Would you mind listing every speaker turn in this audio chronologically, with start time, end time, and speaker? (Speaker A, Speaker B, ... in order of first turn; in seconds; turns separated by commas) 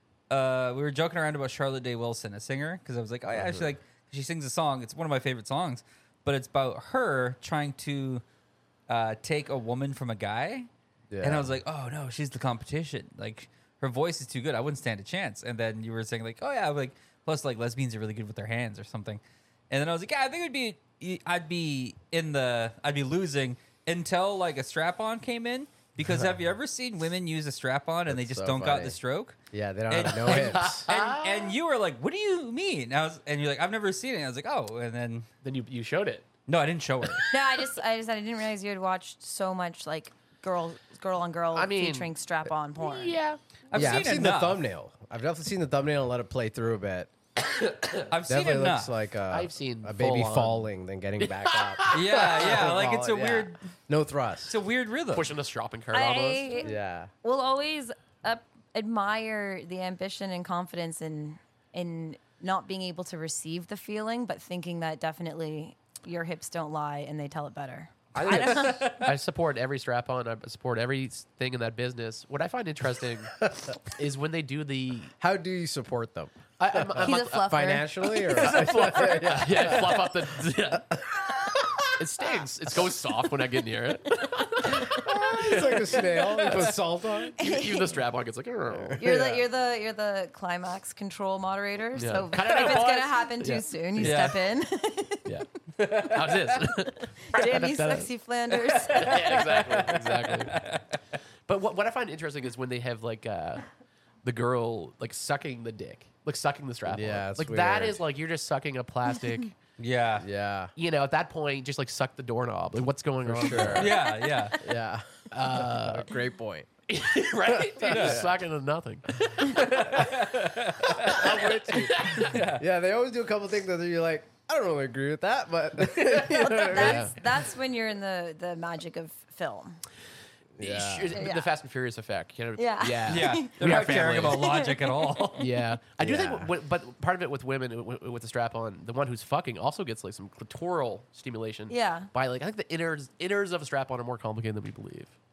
Speaker A: 0.3-8.2, Speaker B: 3.3-3.7, Speaker A: 8.9-10.7, Speaker B: 11.1-11.5, Speaker A: 11.2-29.4, Speaker B: 28.1-29.0, Speaker B: 29.5-30.9, Speaker A: 29.9-35.3, Speaker C: 30.2-31.6, Speaker C: 35.4-36.3, Speaker A: 36.5-37.3, Speaker D: 37.3-43.2, Speaker C: 41.5-42.1, Speaker C: 42.8-43.9, Speaker A: 43.7-44.6, Speaker B: 43.7-47.1, Speaker C: 47.4-48.1, Speaker A: 48.1-48.9, Speaker B: 48.3-54.6, Speaker C: 49.3-50.7, Speaker C: 51.2-52.7, Speaker A: 51.9-53.6, Speaker A: 54.5-55.3, Speaker C: 55.1-56.6, Speaker D: 55.9-69.0, Speaker B: 56.6-57.1, Speaker C: 68.1-75.1, Speaker A: 68.2-69.1, Speaker B: 75.2-80.3, Speaker C: 76.6-81.0, Speaker D: 77.0-78.6, Speaker B: 81.0-81.9, Speaker C: 82.0-89.2, Speaker B: 84.7-87.3, Speaker D: 87.4-88.0, Speaker B: 88.8-89.4, Speaker D: 89.0-95.3, Speaker C: 92.0-94.3, Speaker A: 94.0-94.5, Speaker C: 95.3-98.1, Speaker A: 95.8-96.7, Speaker D: 97.0-99.4, Speaker A: 98.5-101.0, Speaker C: 99.0-100.6, Speaker C: 101.5-103.7, Speaker C: 104.2-109.5, Speaker B: 106.9-108.0, Speaker A: 109.8-110.3, Speaker B: 110.2-110.7, Speaker C: 110.8-114.0, Speaker B: 113.2-114.0, Speaker A: 113.5-114.6, Speaker D: 113.9-114.4, Speaker B: 114.6-116.7, Speaker C: 115.3-116.1, Speaker C: 116.9-120.4, Speaker B: 117.5-118.3, Speaker A: 117.8-118.3, Speaker A: 119.4-122.7, Speaker B: 120.8-127.1, Speaker C: 120.9-122.4, Speaker D: 126.1-129.8, Speaker C: 126.7-127.2, Speaker B: 130.6-131.3, Speaker C: 130.6-134.6, Speaker D: 131.1-131.5, Speaker D: 132.6-135.4, Speaker A: 133.1-135.5, Speaker C: 135.4-145.2, Speaker B: 136.0-136.5, Speaker D: 141.7-142.1